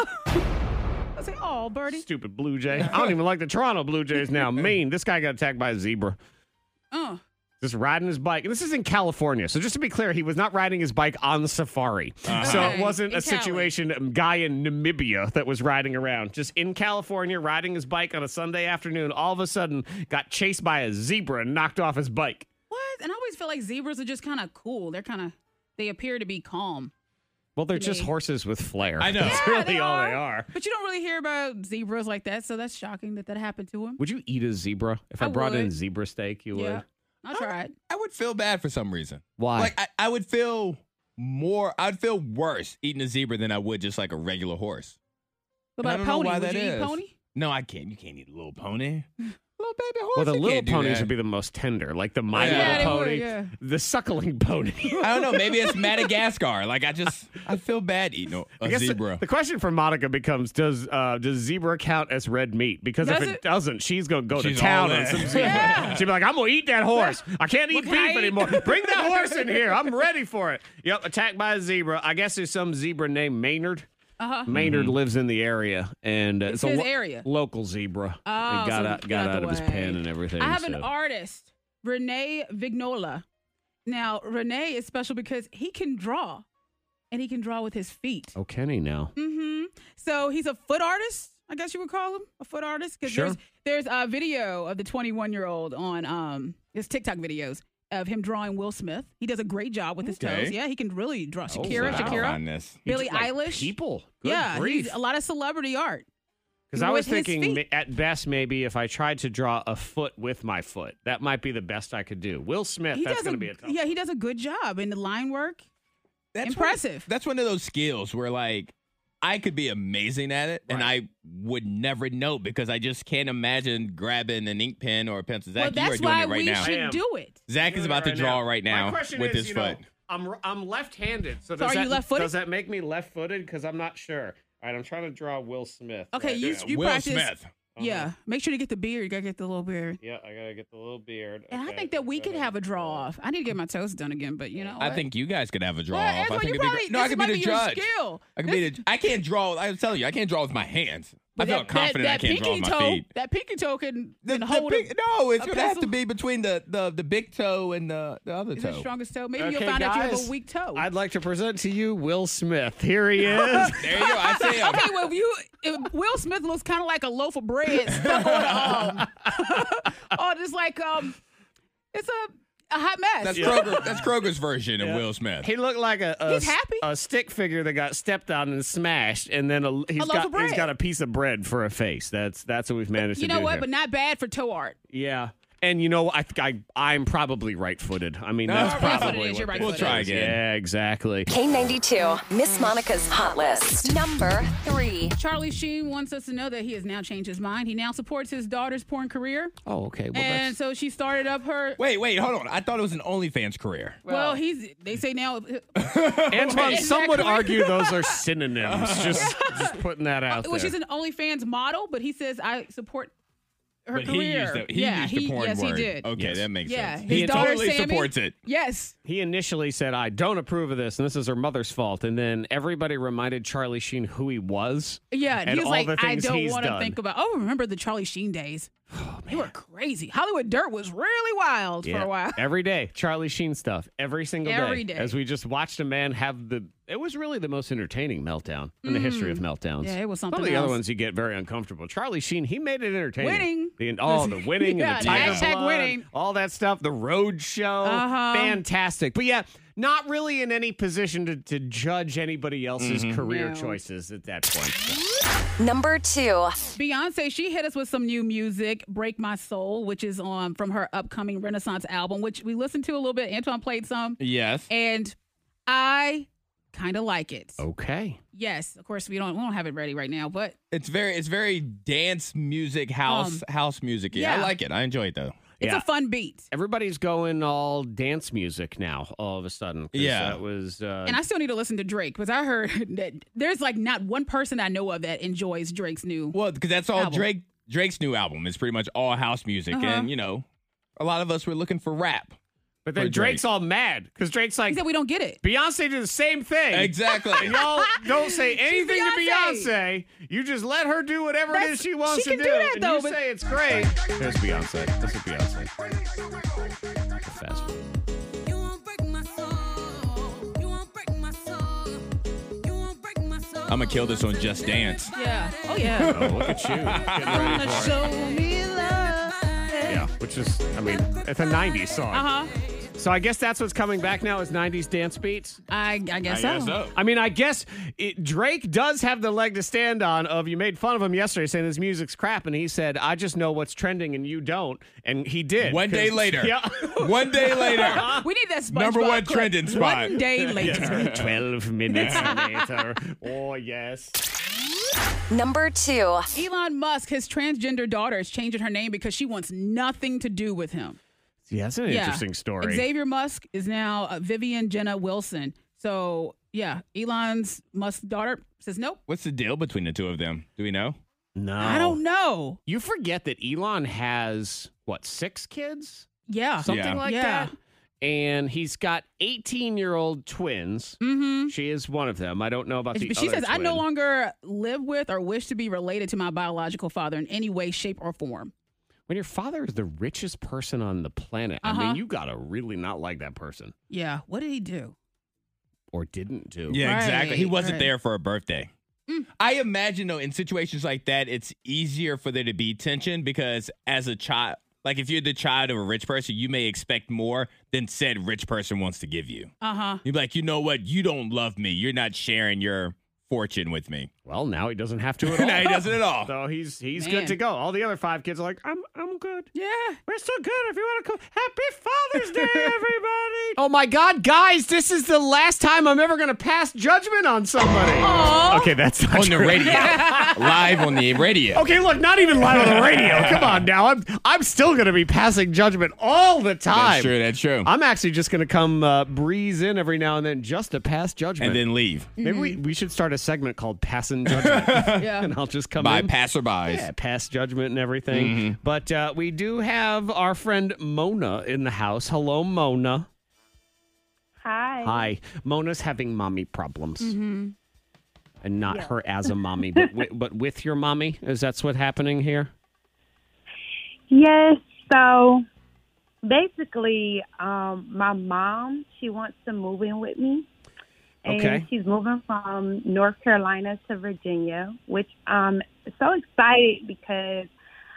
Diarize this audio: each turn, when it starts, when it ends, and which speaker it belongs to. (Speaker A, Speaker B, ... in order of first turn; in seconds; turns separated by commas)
Speaker A: 1.2-2.0, Speaker B: 1.9-6.2, Speaker A: 6.9-7.2, Speaker B: 7.6-22.5, Speaker C: 12.3-12.8, Speaker A: 12.4-13.7, Speaker A: 22.7-26.9, Speaker B: 27.6-30.5, Speaker A: 27.7-28.1, Speaker C: 29.0-29.6, Speaker A: 29.2-34.0, Speaker B: 34.0-36.8, Speaker A: 35.2-35.7, Speaker A: 36.5-37.7, Speaker C: 37.3-45.0, Speaker B: 39.4-39.8, Speaker A: 45.8-47.1, Speaker C: 45.8-51.1, Speaker B: 50.1-55.2, Speaker C: 52.3-53.0, Speaker A: 52.4-53.5, Speaker A: 54.9-55.8, Speaker C: 55.0-59.2, Speaker B: 58.6-73.9, Speaker A: 63.0-63.4, Speaker C: 64.3-66.0, Speaker A: 65.3-66.0, Speaker A: 67.7-69.6, Speaker A: 74.2-74.5, Speaker B: 74.5-80.9, Speaker C: 74.5-75.0, Speaker A: 76.5-77.3, Speaker A: 78.3-83.2, Speaker A: 83.9-86.5, Speaker A: 87.1-88.3, Speaker B: 88.4-89.1, Speaker A: 89.2-106.1, Speaker B: 93.0-93.4, Speaker C: 100.0-100.6, Speaker B: 101.5-102.3, Speaker C: 101.7-102.8, Speaker B: 102.8-105.0, Speaker B: 106.7-113.9, Speaker A: 106.8-107.6, Speaker A: 112.9-115.6, Speaker C: 116.3-126.7, Speaker A: 116.4-117.1, Speaker B: 120.7-120.9, Speaker A: 125.6-127.4, Speaker B: 126.6-127.0, Speaker C: 127.5-129.8, Speaker B: 127.6-136.7, Speaker A: 131.6-132.3, Speaker A: 136.1-140.0, Speaker C: 136.4-137.5, Speaker B: 137.8-138.1, Speaker B: 140.0-143.1, Speaker A: 141.5-145.0, Speaker B: 144.5-144.8, Speaker C: 144.8-153.1, Speaker A: 145.9-148.8, Speaker A: 151.4-155.9, Speaker B: 151.4-151.7, Speaker C: 154.2-158.9, Speaker A: 158.6-160.9, Speaker B: 159.4-163.9, Speaker A: 163.2-171.2, Speaker C: 163.7-164.9, Speaker C: 168.0-168.7, Speaker A: 171.9-173.9, Speaker C: 173.2-175.5, Speaker B: 173.3-173.9, Speaker B: 174.8-183.7, Speaker A: 176.3-176.8, Speaker A: 180.0-180.7, Speaker A: 183.2-184.8, Speaker B: 184.9-191.3, Speaker C: 188.5-190.4, Speaker A: 188.5-190.0, Speaker D: 191.3-195.2, Speaker A: 195.1-199.5, Speaker B: 199.7-200.6, Speaker A: 200.1-201.8, Speaker C: 201.8-204.0, Speaker B: 204.0-204.4, Speaker A: 204.1-208.2, Speaker C: 205.8-206.9, Speaker B: 206.3-210.8, Speaker C: 208.6-209.3, Speaker A: 209.2-209.8, Speaker A: 210.3-213.1, Speaker A: 213.9-216.1, Speaker C: 213.9-218.3, Speaker B: 216.2-216.5, Speaker A: 216.6-218.9, Speaker B: 217.1-217.6, Speaker B: 219.1-227.0, Speaker A: 225.1-228.7, Speaker B: 228.9-229.5, Speaker A: 229.3-232.4, Speaker B: 231.8-255.0, Speaker A: 234.4-235.2, Speaker A: 238.8-240.8, Speaker A: 243.2-246.1, Speaker C: 245.0-245.5, Speaker A: 247.8-248.6, Speaker C: 252.8-253.2, Speaker A: 253.2-253.8, Speaker D: 255.6-256.6, Speaker A: 256.8-265.1, Speaker C: 264.2-264.7, Speaker A: 265.7-267.6, Speaker B: 267.6-268.2, Speaker A: 268.3-270.6, Speaker C: 270.7-275.4, Speaker A: 273.1-273.4, Speaker A: 274.1-274.5, Speaker B: 275.6-275.9, Speaker A: 275.6-276.5, Speaker B: 276.5-281.2, Speaker C: 279.9-280.4, Speaker A: 281.1-286.4, Speaker C: 286.3-290.4, Speaker A: 286.9-287.3, Speaker A: 289.7-290.1, Speaker C: 291.0-292.4, Speaker B: 292.9-294.8, Speaker C: 293.0-293.4, Speaker A: 294.7-295.4, Speaker B: 295.4-305.7, Speaker C: 296.7-297.6, Speaker A: 297.3-299.7, Speaker A: 301.5-303.2, Speaker B: 307.2-307.9, Speaker A: 309.4-310.5, Speaker C: 313.7-315.1, Speaker A: 315.1-316.2, Speaker C: 315.9-317.9, Speaker B: 316.1-318.1, Speaker A: 317.2-320.1, Speaker B: 319.9-322.3, Speaker A: 322.1-322.5, Speaker B: 322.9-325.6, Speaker A: 325.7-326.8, Speaker C: 326.3-327.0, Speaker B: 326.9-338.3, Speaker C: 335.6-341.4, Speaker A: 336.8-341.2, Speaker B: 340.4-344.2, Speaker A: 341.9-342.7, Speaker C: 342.0-342.3, Speaker D: 345.3-346.3, Speaker A: 346.3-351.0, Speaker B: 351.5-352.9, Speaker A: 351.9-359.0, Speaker C: 359.1-361.0, Speaker B: 361.4-362.0, Speaker A: 361.6-362.6, Speaker B: 362.7-366.1, Speaker A: 366.3-367.5, Speaker B: 366.6-373.9, Speaker C: 366.6-367.0, Speaker A: 371.0-371.5, Speaker A: 372.9-378.5, Speaker B: 379.1-383.7, Speaker A: 381.6-382.0, Speaker A: 383.9-384.9, Speaker B: 385.9-386.8, Speaker C: 386.7-388.7, Speaker A: 386.8-387.9, Speaker C: 389.4-399.5, Speaker A: 399.6-400.0, Speaker C: 400.0-404.1, Speaker B: 404.2-409.5, Speaker C: 405.2-406.3, Speaker A: 407.0-407.4, Speaker A: 409.5-410.0, Speaker B: 410.1-420.8, Speaker A: 412.4-412.7, Speaker A: 418.0-418.7, Speaker C: 419.1-421.6, Speaker A: 419.6-420.4, Speaker B: 421.5-436.1, Speaker C: 422.4-423.7, Speaker C: 426.7-427.7, Speaker C: 431.4-432.1, Speaker A: 432.2-432.6, Speaker C: 434.3-435.1, Speaker A: 435.0-435.3, Speaker C: 435.8-436.9, Speaker B: 436.6-443.1, Speaker C: 438.1-438.6, Speaker E: 444.4-445.1, Speaker B: 444.8-447.2, Speaker A: 447.0-447.6, Speaker B: 448.4-452.5, Speaker E: 448.7-448.9, Speaker E: 454.1-455.4, Speaker E: 456.2-460.5, Speaker E: 461.2-467.5, Speaker B: 461.3-461.7